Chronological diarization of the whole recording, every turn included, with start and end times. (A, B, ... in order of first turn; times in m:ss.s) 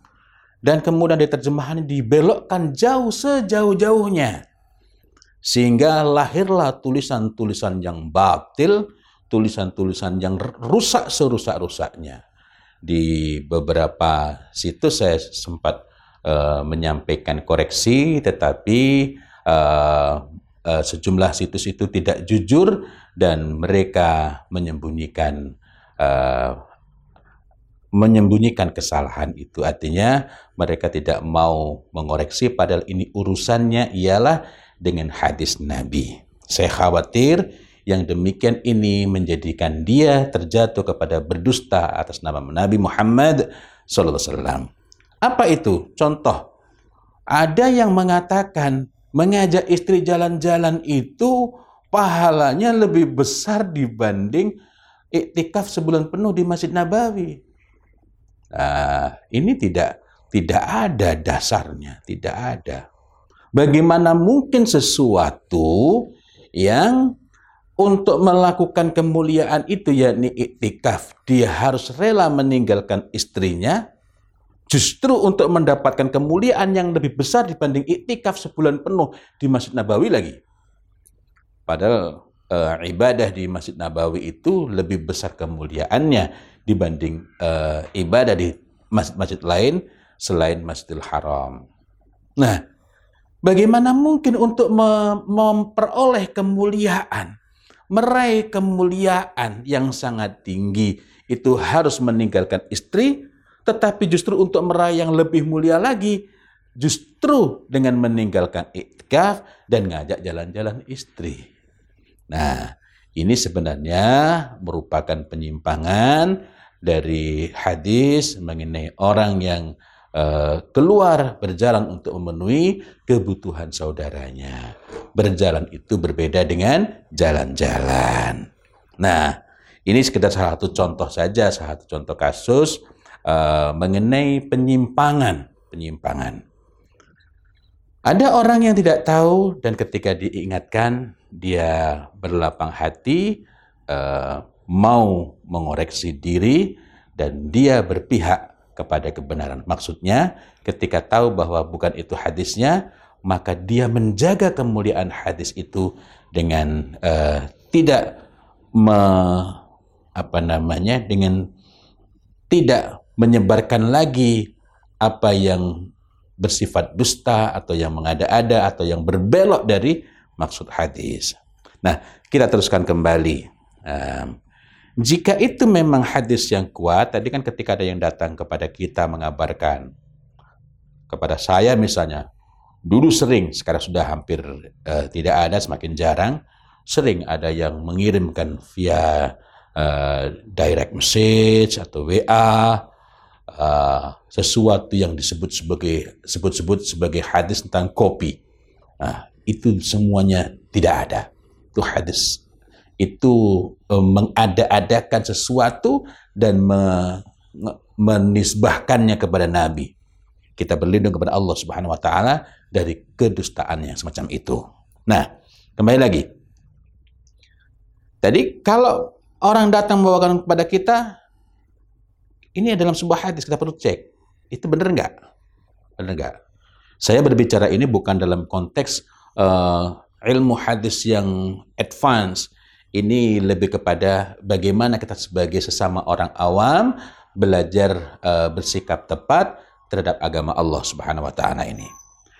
0:00.6-0:04.4 A
0:05.4-0:08.8 A
0:09.3-0:12.2 A
0:12.8-0:25.4 A
0:26.0-0:26.6 A
0:28.0-0:44.7 A
0:45.2-0:46.4 A
0:47.4-0:51.4 A
0:51.9-0:54.5 A
0:55.2-0:57.4 A
0:58.5-1:02.8 A
1:03.6-1:05.9 A
1:06.6-1:07.0 A
1:07.8-1:13.8 A
1:14.7-1:20.4 A
1:21.7-1:31.6 A
1:33.4-1:37.3 A
1:37.9-1:46.2 A
1:46.8-1:51.4 A
1:52.3-1:56.3 A
1:56.8-2:04.6 A
2:05.2-2:08.4 A
2:09.0-2:09.3 A
2:09.9-2:12.8 A
2:13.3-2:16.4 A
2:18.1-2:23.2 A
2:23.9-2:38.0 A
2:38.8-2:39.6 A
2:40.2-2:41.4 A
2:42.5-2:44.4 A
2:45.0-2:45.7 A
2:46.4-2:54.3 A
2:55.0-2:59.8 A
3:01.1-3:02.2 A
3:02.9-3:06.4 A
3:06.9-3:12.8 A
3:13.5-3:18.4 A
3:19.0-3:22.4 A
3:23.0-3:29.9 A
3:30.6-3:35.3 A
3:35.8-3:36.2 A
3:38.2-3:41.0 A
3:42.6-3:45.1 A
3:46.0-3:46.3 A
3:47.0-4:01.9 A